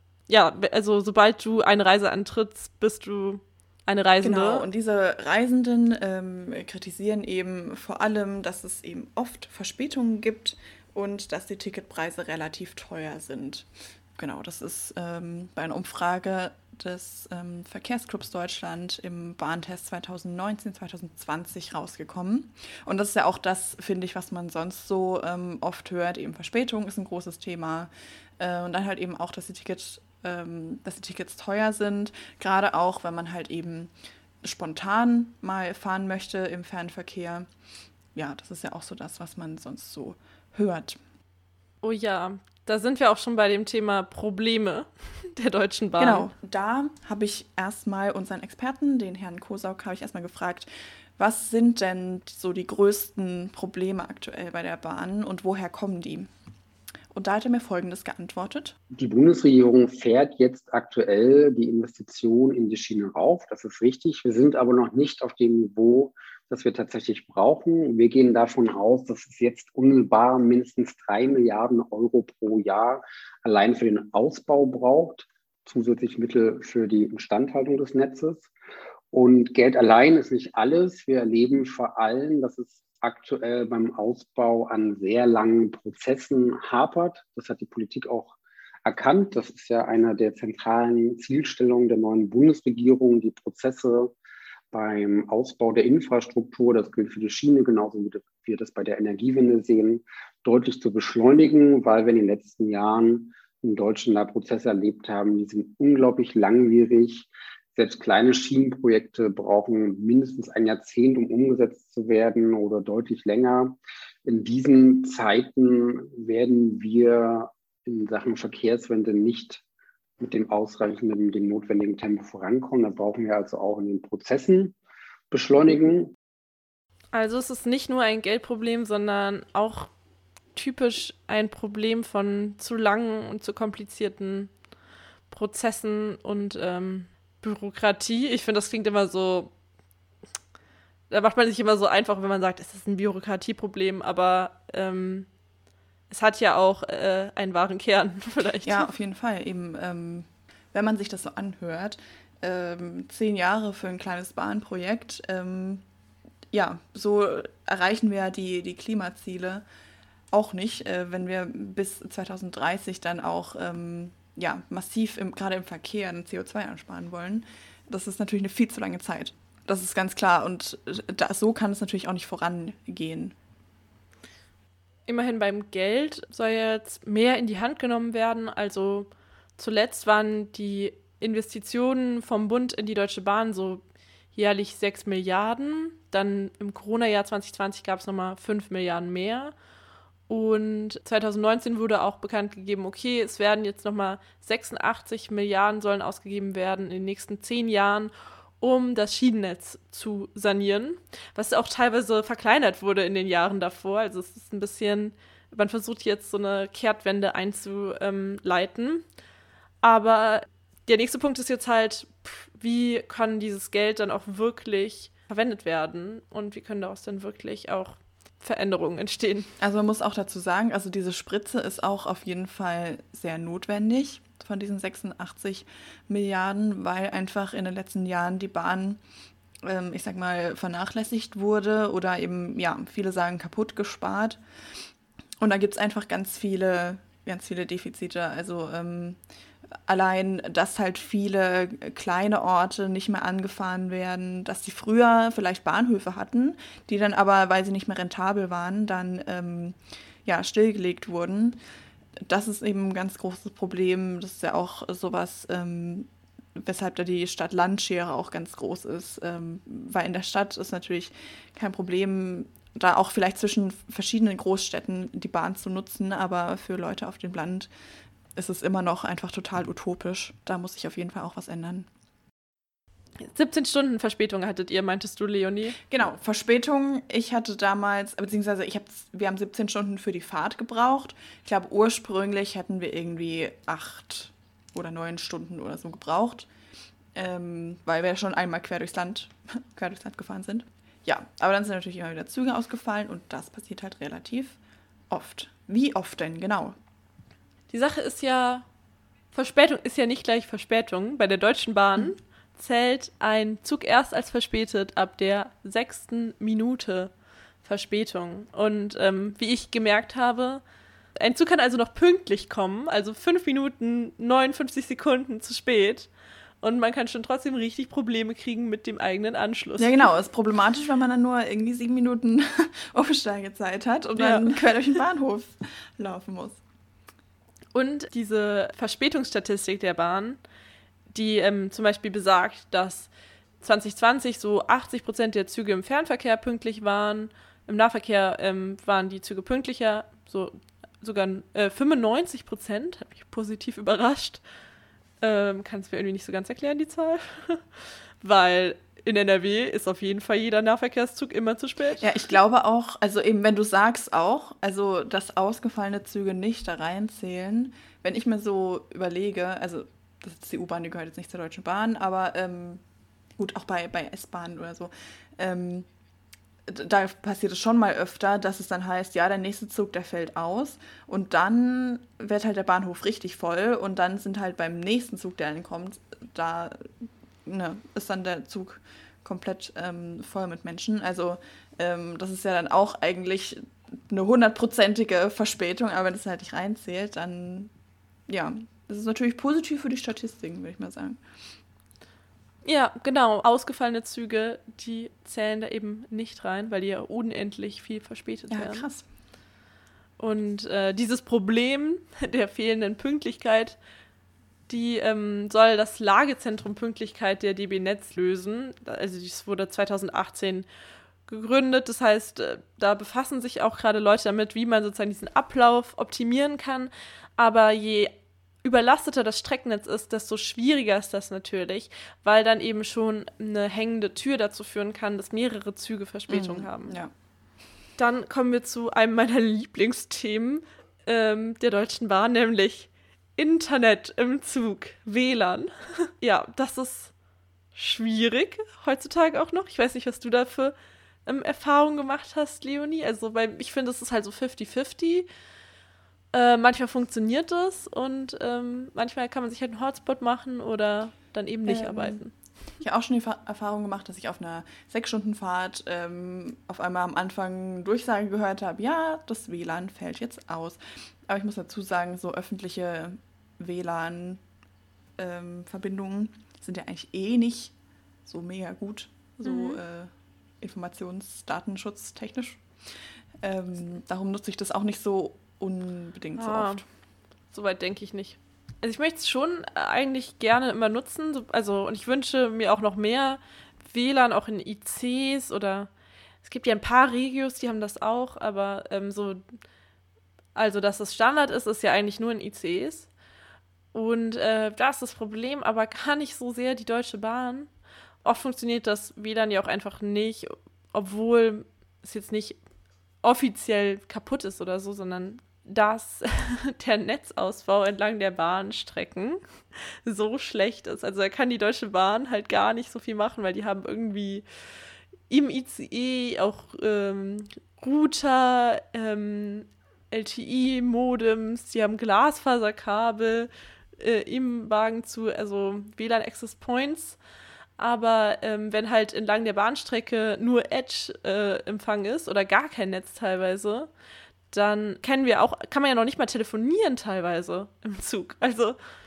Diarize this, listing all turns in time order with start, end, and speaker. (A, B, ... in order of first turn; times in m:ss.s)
0:00.3-0:04.6 A
0:04.2-0:37.5 B
0:38.2-0:41.0 B
0:41.8-0:46.3 A
0:46.0-0:56.3 B
0:57.1-0:58.8 B
0:58.9-1:18.5 C
1:19.1-1:34.1 C
1:34.7-1:59.6 C
2:00.2-2:04.8 C
2:05.3-2:06.1 C
2:07.1-2:09.9 A
2:10.6-2:14.5 A
2:15.3-2:19.5 A
2:21.1-2:25.3 A
2:26.1-2:28.9 A
2:28.6-2:35.8 B
2:36.5-2:39.6 B
2:40.3-2:53.4 B
2:55.1-3:03.8 A
3:04.4-3:09.5 A
3:10.3-3:29.0 A
3:29.8-3:39.5 A
3:39.6-3:49.0 B
3:49.6-3:54.4 B
3:55.4-3:59.2 B
3:59.9-4:11.6 B
4:12.2-4:27.7 B
4:28.4-4:31.9 B
4:33.2-4:35.8 A
4:35.9-4:46.5 B
4:47.1-4:54.6 B
4:55.1-4:56.8 B
4:57.7-4:58.7 A
4:59.3-5:07.1 A
5:07.6-5:10.6 A
5:11.2-5:16.1 A
5:16.6-5:20.1 A
5:19.8-5:26.6 B
5:24.2-5:24.6 A
5:27.7-5:30.4 A
5:31.1-5:33.1 A
5:33.6-5:44.4 A
5:45.2-5:52.1 A
5:52.0-6:02.8 B
6:03.4-6:05.9 B
6:06.7-6:27.7 B
6:28.3-6:31.2 B
6:32.6-6:38.9 A
6:38.5-6:39.1 B
6:40.2-6:43.8 A
6:44.7-6:50.7 A
6:51.3-6:58.1 A
6:58.6-7:07.0 A
7:06.3-7:07.1 B
7:08.0-7:17.1 A
7:17.8-7:20.8 A
7:21.3-7:25.3 A
7:26.3-7:32.3 A
7:31.7-7:32.2 B
7:32.8-7:44.4 B
7:45.2-7:47.7 B
7:48.2-7:52.6 B
7:49.4-7:49.8 A
7:53.4-7:56.8 B
7:56.4-7:56.8 A
7:57.5-8:05.9 A
8:06.4-8:09.4 A
8:10.6-8:13.1 A
8:13.9-8:17.7 A
8:18.2-8:22.6 A
8:23.2-8:29.4 A
8:30.0-8:34.4 A
8:35.3-8:47.2 A
8:47.8-8:53.9 A
8:54.5-8:58.8 A